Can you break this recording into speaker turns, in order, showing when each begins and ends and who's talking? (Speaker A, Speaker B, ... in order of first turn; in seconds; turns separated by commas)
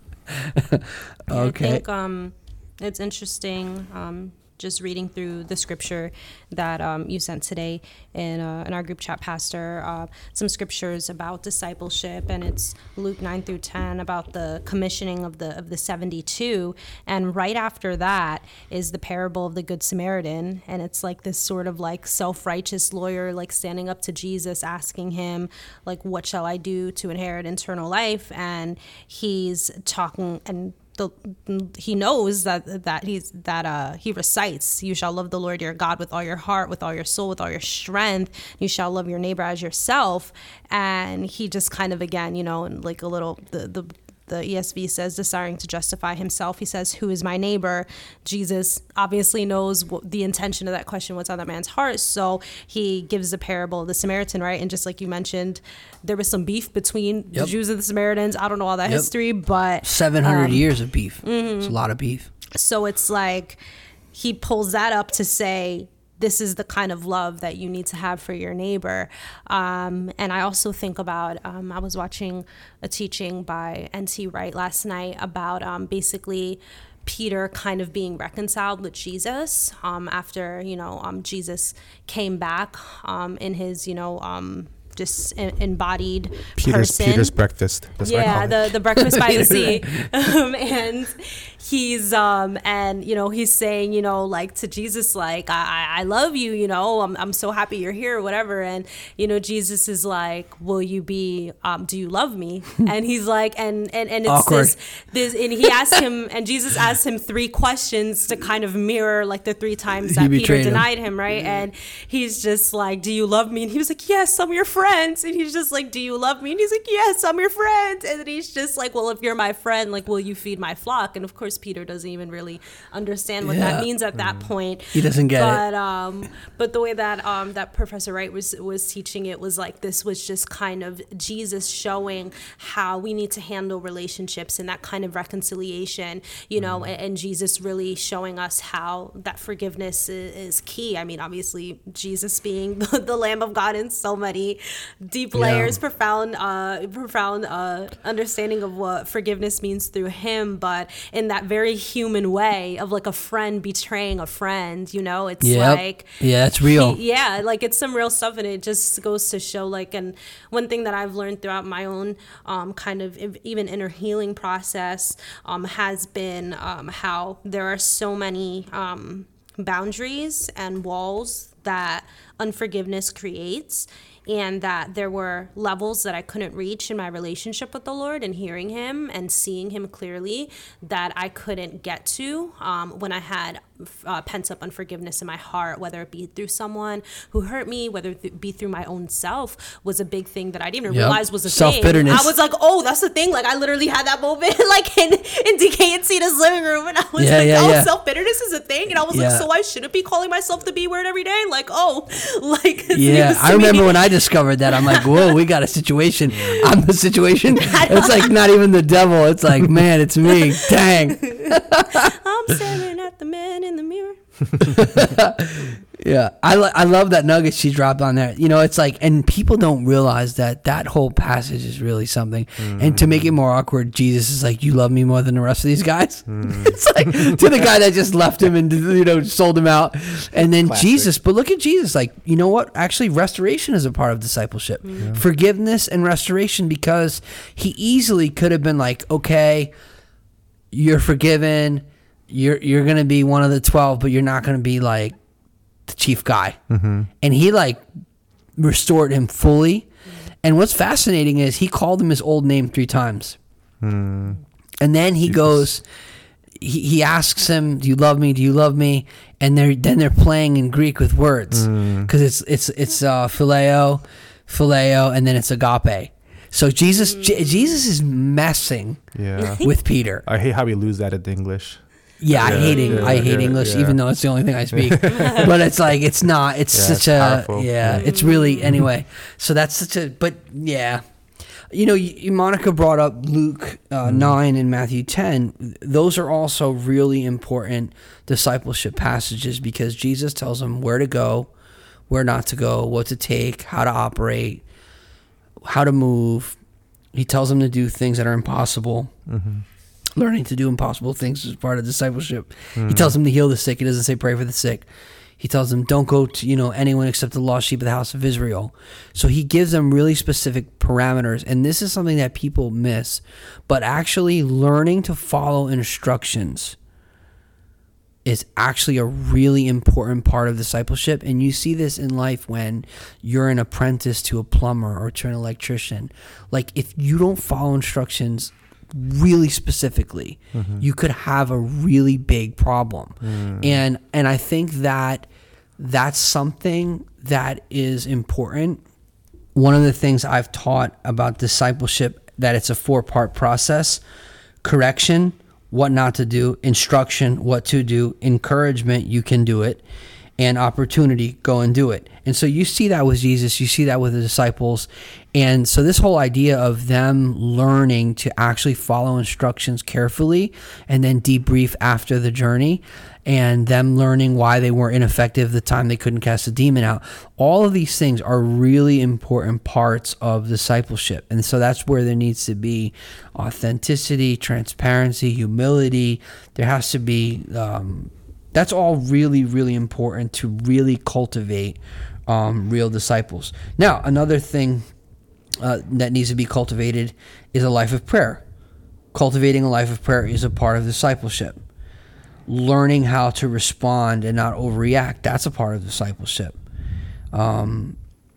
Speaker A: 0.4-1.8, Speaker B: 1.3-60.6, Speaker A: 58.9-59.1, Speaker A: 59.8-62.3, Speaker B: 61.2-61.8, Speaker B: 62.5-63.6, Speaker B: 64.1-87.3, Speaker C: 86.6-88.7, Speaker B: 88.0-205.4, Speaker A: 89.1-90.0, Speaker A: 104.3-104.7, Speaker A: 110.0-110.9, Speaker A: 123.4-123.9, Speaker C: 124.2-124.5, Speaker A: 124.9-125.6, Speaker C: 136.6-136.9, Speaker A: 145.3-145.8, Speaker A: 155.4-157.0, Speaker A: 190.9-192.3, Speaker A: 197.2-197.9, Speaker A: 199.1-199.4, Speaker A: 202.9-212.2, Speaker B: 206.4-206.7, Speaker B: 207.5-208.3, Speaker B: 210.3-214.6, Speaker A: 214.6-239.7, Speaker C: 222.6-223.3, Speaker C: 226.3-227.4, Speaker C: 230.4-231.1, Speaker B: 234.8-235.2, Speaker C: 235.0-235.2, Speaker A: 240.7-245.2, Speaker A: 245.9-246.6, Speaker C: 246.7-247.1, Speaker A: 247.2-247.9, Speaker A: 248.6-249.9, Speaker A: 250.4-253.4, Speaker C: 253.8-254.4, Speaker A: 254.8-255.8, Speaker C: 255.3-255.6, Speaker A: 256.6-269.0, Speaker C: 261.5-262.1, Speaker B: 267.0-267.8, Speaker C: 269.1-269.6, Speaker B: 269.4-269.7, Speaker A: 269.6-270.2, Speaker C: 270.2-271.9, Speaker A: 272.2-281.0, Speaker B: 272.3-273.4, Speaker C: 272.4-274.0, Speaker C: 274.7-275.5, Speaker B: 275.1-275.5, Speaker C: 276.7-278.1, Speaker B: 277.9-278.8, Speaker A: 281.7-291.5, Speaker C: 284.1-284.4, Speaker A: 292.1-294.6, Speaker A: 295.6-296.6, Speaker A: 297.1-299.1, Speaker C: 299.3-299.6, Speaker A: 300.2-304.9, Speaker C: 302.8-303.1, Speaker A: 305.4-316.8, Speaker A: 318.2-338.8, Speaker C: 330.5-330.8, Speaker C: 333.2-333.8, Speaker A: 339.6-344.0, Speaker A: 344.6-349.8, Speaker A: 350.4-384.9, Speaker A: 385.6-388.4, Speaker A: 389.1-391.6, Speaker A: 392.5-396.5, Speaker A: 397.3-398.0